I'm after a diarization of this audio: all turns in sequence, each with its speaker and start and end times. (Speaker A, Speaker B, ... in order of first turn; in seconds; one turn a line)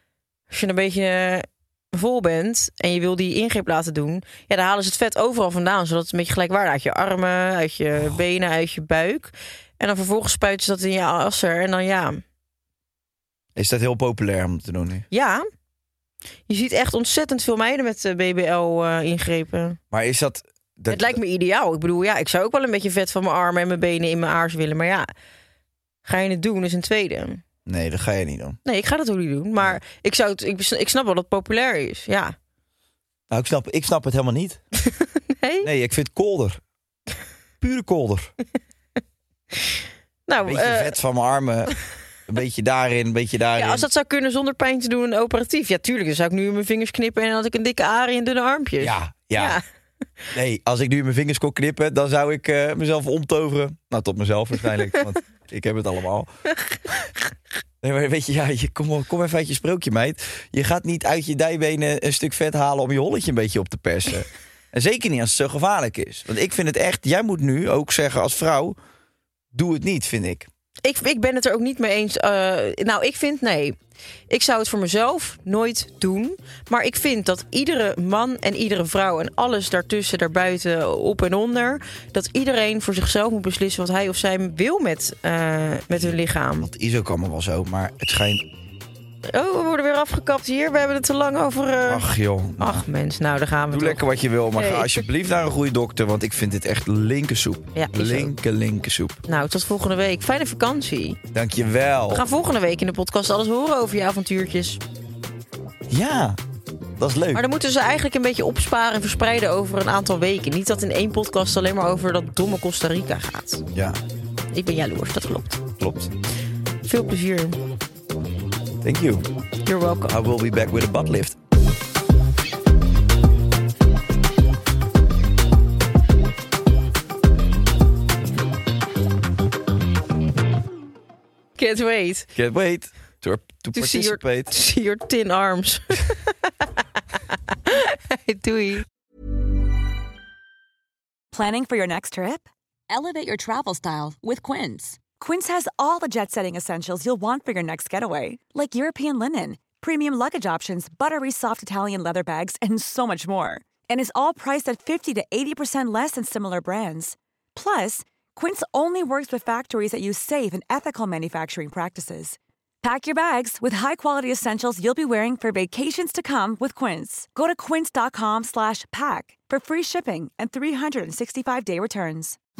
Speaker A: 0.5-12.2
Speaker B: 13.6-15.1
Speaker A: 15.1-15.4
Speaker A: 16.5-19.8
Speaker B: 19.9-21.2
Speaker A: 20.9-25.1
Speaker A: 26.0-27.4
Speaker B: 27.6-28.6
Speaker A: 28.6-32.3
Speaker B: 33.3-34.6
Speaker A: 35.4-35.7
Speaker B: 35.6-36.6
Speaker B: 37.6-38.3
Speaker A: 40.3-41.0
Speaker B: 40.4-41.7
Speaker B: 42.3-43.9
Speaker A: 43.5-49.6
Speaker B: 48.8-49.6
Speaker B: 50.3-56.3
Speaker B: 57.8-68.8
Speaker B: 69.5-70.5
Speaker A: 70.8-73.8
Speaker A: 74.3-86.7
Speaker B: 85.9-88.5
Speaker A: 89.3-94.0
Speaker B: 91.8-92.9
Speaker B: 93.7-99.2
Speaker A: 94.6-95.0
Speaker A: 97.7-98.3
Speaker A: 99.2-101.2
Speaker B: 101.3-102.2
Speaker A: 102.1-104.8
Speaker B: 105.9-106.4
Speaker B: 107.0-107.4
Speaker A: 107.3-113.7
Speaker B: 113.7-114.0
Speaker A: 114.5-115.6
Speaker B: 115.8-116.1
Speaker A: 116.8-117.6
Speaker B: 118.8-119.3
Speaker A: 119.7-120.1
Speaker B: 120.1-121.4
Speaker A: 131.6-132.3
Speaker B: 132.3-134.5
Speaker A: 133.7-136.3
Speaker A: 137.7-138.8
Speaker C: 141.3-172.4